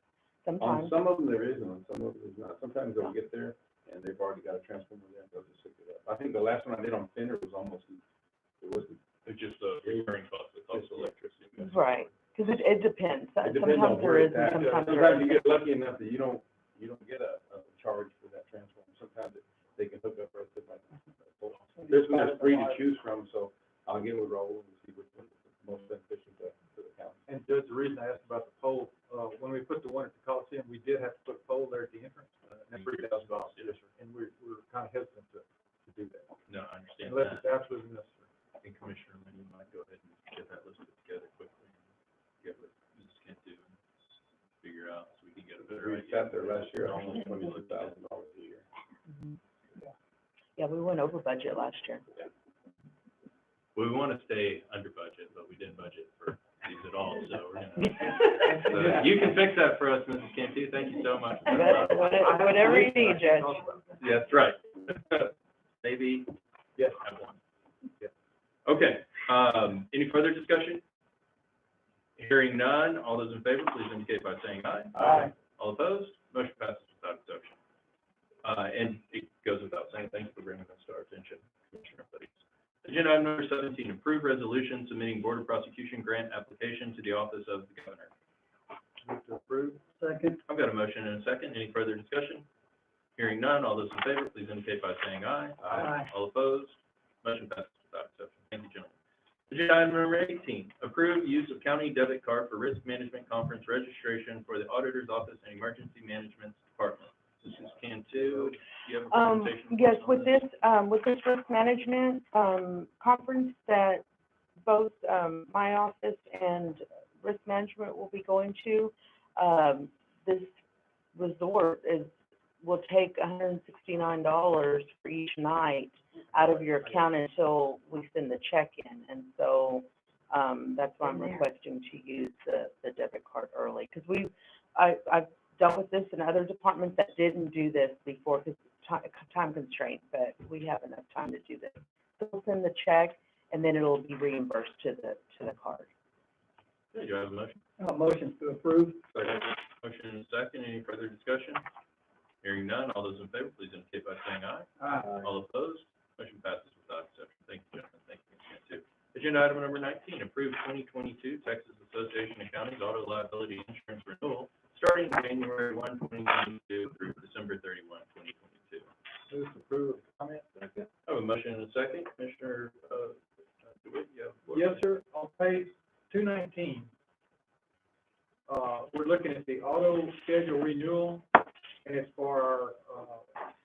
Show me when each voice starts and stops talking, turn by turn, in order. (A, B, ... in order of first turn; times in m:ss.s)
0:00.4-0:00.9 A
0:00.6-0:08.0 B
0:08.6-0:09.0 B
0:09.2-0:12.1 C
0:10.7-0:11.1 B
0:11.6-0:15.4 A
0:13.4-0:27.2 B
0:14.5-0:14.8 D
0:21.8-0:22.7 E
0:27.3-0:36.3 D
0:32.5-0:33.7 C
0:36.5-0:37.4 C
0:37.0-0:38.2 D
0:38.6-0:41.8 C
0:42.4-0:43.7 C
0:44.6-0:47.9 C
0:45.8-0:48.6 B
0:49.1-0:49.4 A
0:50.6-0:52.0 A
0:53.7-1:02.5 C
0:58.2-0:59.0 D
1:01.5-1:03.6 A
1:01.9-1:03.9 D
1:04.0-1:07.4 C
1:08.6-1:10.8 C
1:12.2-1:17.6 C
1:15.0-1:15.3 E
1:18.4-1:28.1 C
1:29.0-1:29.8 D
1:30.0-1:30.4 E
1:30.5-1:32.4 C
1:33.2-1:38.9 C
1:35.6-1:35.9 B
1:39.5-1:50.4 C
1:49.1-1:54.0 A
1:54.6-2:00.5 A
2:01.1-2:25.9 A
2:06.4-2:06.9 D
2:26.9-2:27.6 C
2:27.8-2:29.1 E
2:29.8-2:31.6 C
2:32.4-2:48.9 C
2:34.8-2:35.1 E
2:49.3-2:50.9 D
2:51.0-2:54.8 C
2:54.5-2:56.9 D
2:58.5-3:01.2 D
3:01.8-3:03.3 D